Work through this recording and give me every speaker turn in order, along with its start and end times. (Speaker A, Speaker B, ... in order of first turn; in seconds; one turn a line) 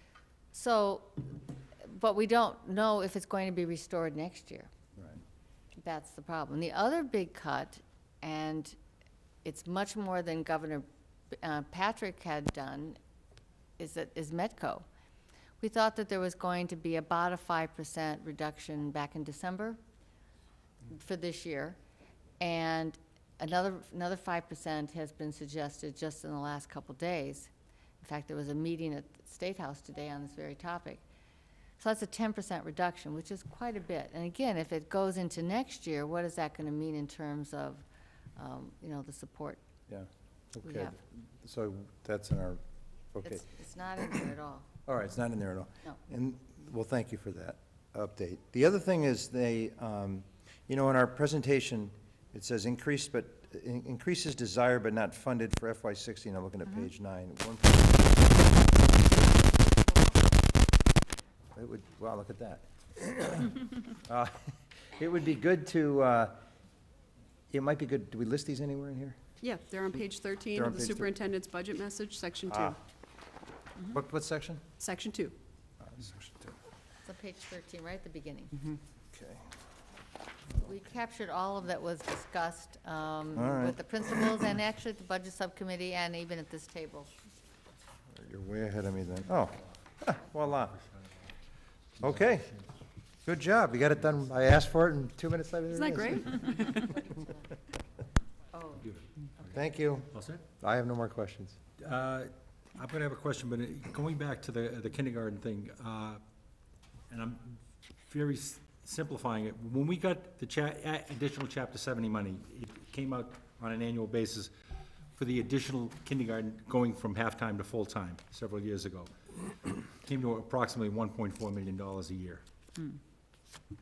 Speaker A: 0.5-4.7
Speaker A: 5.8-8.8
Speaker A: 9.4-10.8
Speaker A: 11.4-13.0
Speaker A: 13.8-14.8
Speaker A: 15.6-19.8
Speaker A: 20.9-21.8
Speaker A: 22.4-31.0
Speaker A: 31.8-37.8
Speaker A: 38.4-39.6
Speaker B: 39.9-42.6
Speaker A: 40.6-40.9
Speaker B: 43.1-43.5
Speaker A: 43.2-44.6
Speaker B: 44.9-59.6
Speaker B: 61.5-66.4
Speaker B: 67.5-69.2
Speaker C: 69.4-72.8
Speaker B: 70.5-71.1
Speaker B: 72.5-72.8
Speaker B: 73.9-74.6
Speaker C: 74.8-75.3
Speaker B: 75.8-76.5
Speaker A: 77.0-78.5
Speaker B: 79.1-79.5
Speaker A: 80.6-87.1
Speaker B: 83.3-83.8
Speaker B: 88.1-90.8
Speaker D: 90.7-91.1
Speaker D: 92.0-92.6
Speaker B: 92.0-92.5
Speaker B: 93.2-96.5
Speaker C: 95.7-96.9
Speaker A: 98.5-98.8
Speaker D: 98.8-99.5
Speaker B: 99.5-101.6
Speaker D: 100.1-100.5
Speaker D: 101.8-106.2
Speaker D: 107.1-114.5
Speaker D: 115.1-119.1
Speaker D: 120.0-122.4